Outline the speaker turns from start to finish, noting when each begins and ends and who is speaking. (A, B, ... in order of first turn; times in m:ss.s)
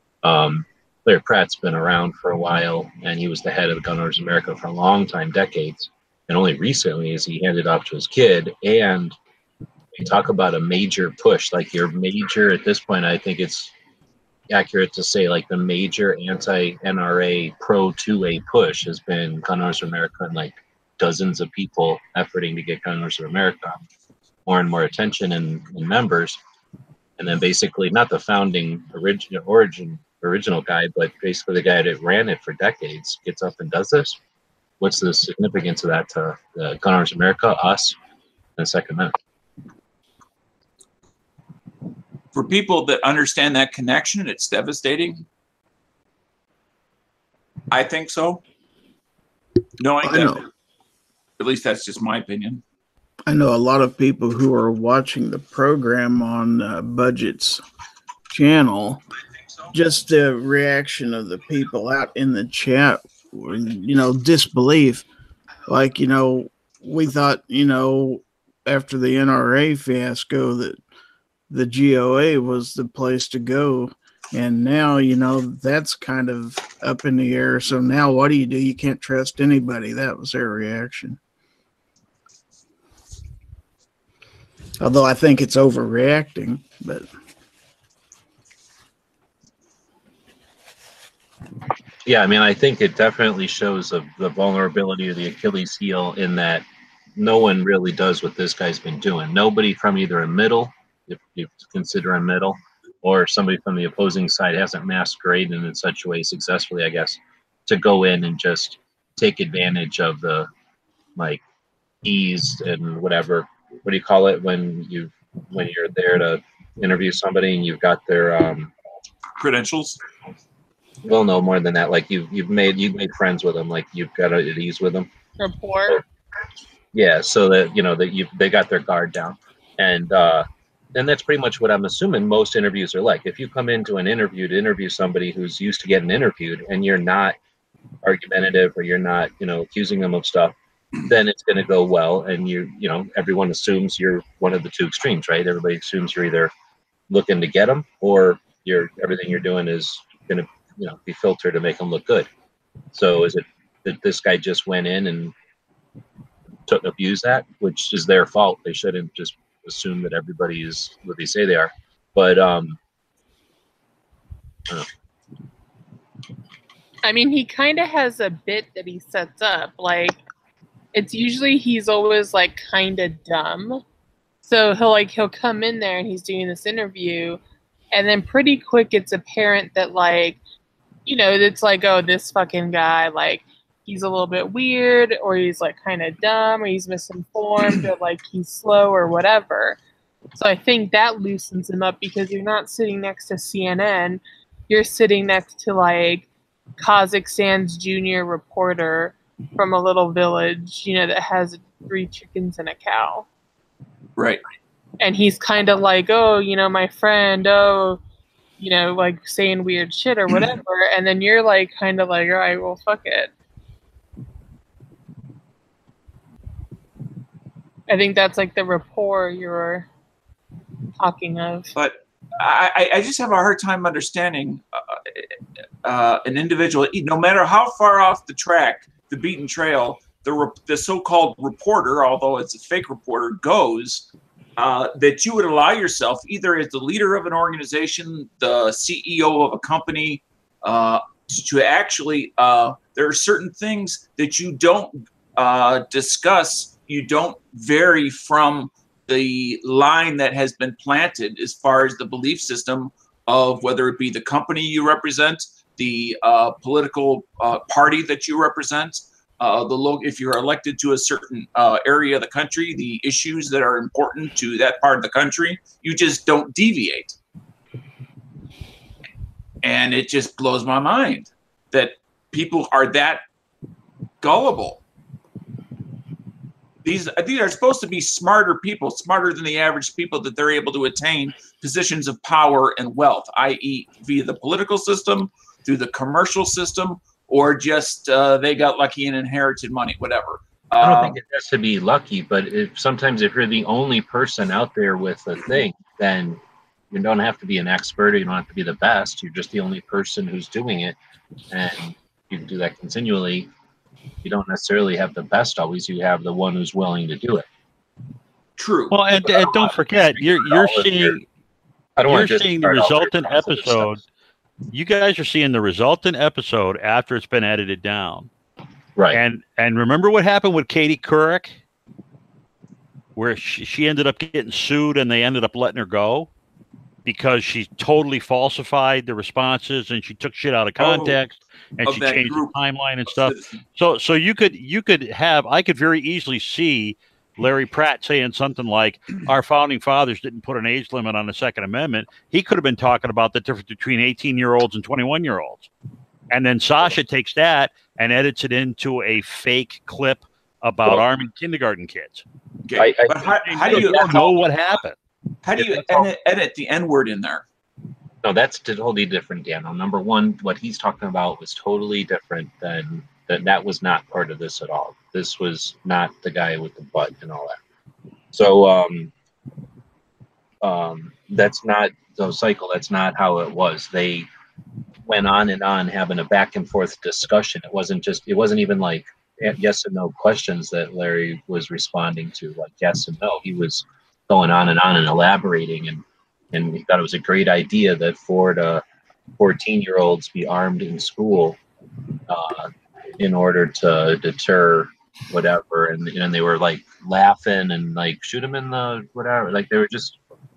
0:00.2-0:09.2 A
0:09.9-0:13.7 A
0:14.5-0:23.8 A
0:24.5-0:26.4 A
0:27.2-0:34.2 A
0:34.8-0:38.0 A
0:38.6-0:39.2 A
0:42.3-0:45.2 B
0:47.7-0:48.4 B
0:49.8-0:50.5 B
0:50.0-0:50.4 C
0:51.4-0:52.6 B
0:53.3-0:57.6 C
0:58.3-0:59.0 C
0:59.7-1:05.1 C
1:05.7-1:10.8 C
1:11.5-1:21.2 C
1:24.8-1:27.1 C
1:32.0-1:50.5 A
1:51.2-1:51.4 A
1:52.0-1:58.7 A
1:59.4-2:00.0 B
2:01.0-2:05.1 A
2:05.4-2:06.0 D
2:06.9-2:17.4 A
2:18.0-2:26.5 A
2:27.1-2:32.3 A
2:32.9-2:35.3 A
2:36.7-2:42.8 A
2:47.0-2:50.2 D
2:50.9-2:53.8 D
2:54.4-2:57.4 D
2:57.9-3:00.4 D
3:01.1-3:09.8 D
3:10.4-3:16.3 D
3:16.8-3:23.3 D
3:24.2-3:24.4 B
3:25.0-3:28.0 D
3:28.6-3:33.3 D
3:37.9-3:39.9 D
3:41.0-3:41.7 D
3:41.8-3:45.3 B
3:45.8-4:27.2 B
4:29.6-4:33.2 B
4:34.2-4:34.8 B
4:36.8-4:51.2 B
4:50.8-5:01.0 A
5:01.5-5:03.5 A
5:04.2-5:07.5 A
5:08.6-5:09.0 B
5:08.9-5:11.2 E
5:09.2-5:11.2 A
5:12.0-5:13.9 A
5:12.0-5:14.0 E
5:14.7-5:18.3 E
5:19.0-5:19.2 A
5:19.1-5:21.6 E
5:23.2-5:26.3 E
5:27.0-5:45.7 E
5:30.8-5:31.2 B
5:31.8-5:32.5 B
5:33.1-5:33.6 B
5:46.3-5:52.2 E
5:52.7-5:54.5 B
5:52.8-5:54.1 A
5:53.5-5:55.0 E
5:55.4-5:57.4 B
5:55.6-5:56.1 A
5:58.2-6:07.6 A
6:08.3-6:09.1 A
6:10.6-6:14.3 A
6:15.0-6:28.8 A
6:29.4-6:31.6 A
6:32.3-6:40.2 A